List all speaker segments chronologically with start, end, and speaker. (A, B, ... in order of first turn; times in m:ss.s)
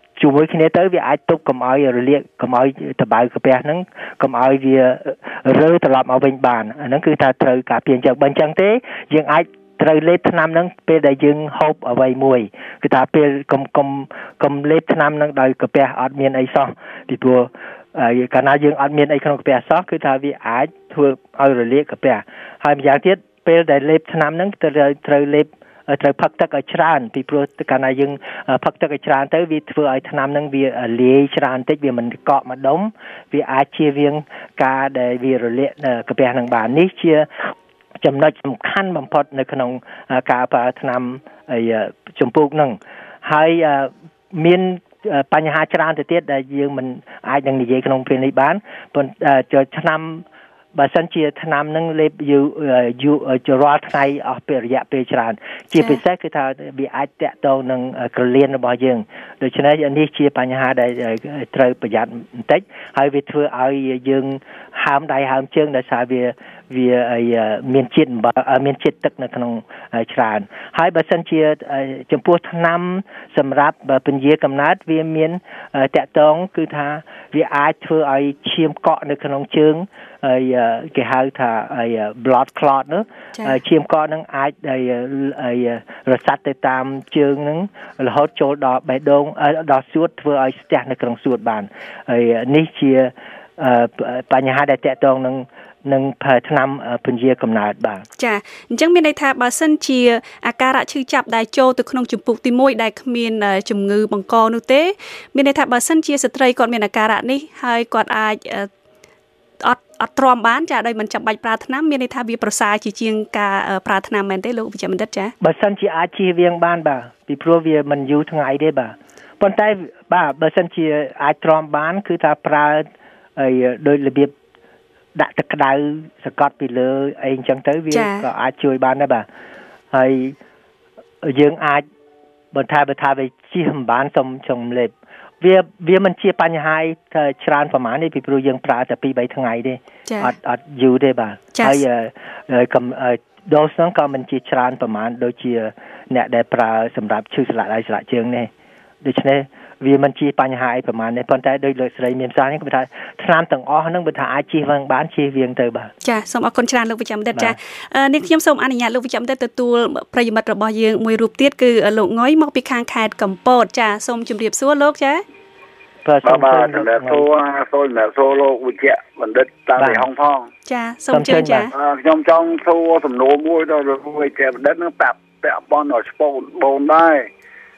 0:00.2-1:38.0 A
1:38.2-1:48.7 B
1:49.6-1:55.3 B
1:55.4-2:04.3 A
2:05.1-2:09.2 A
2:07.9-2:08.2 B
2:09.9-2:10.4 A
2:11.2-2:11.8 A
2:12.5-2:28.5 A
2:20.1-2:20.3 B
2:21.5-2:21.8 B
2:29.0-2:35.9 A
2:36.0-2:45.2 B
2:46.0-2:47.3 A
2:46.2-2:50.5 C
2:49.8-2:50.1 A
2:50.6-2:51.7 B
2:51.1-2:51.7 A
2:51.7-2:57.3 C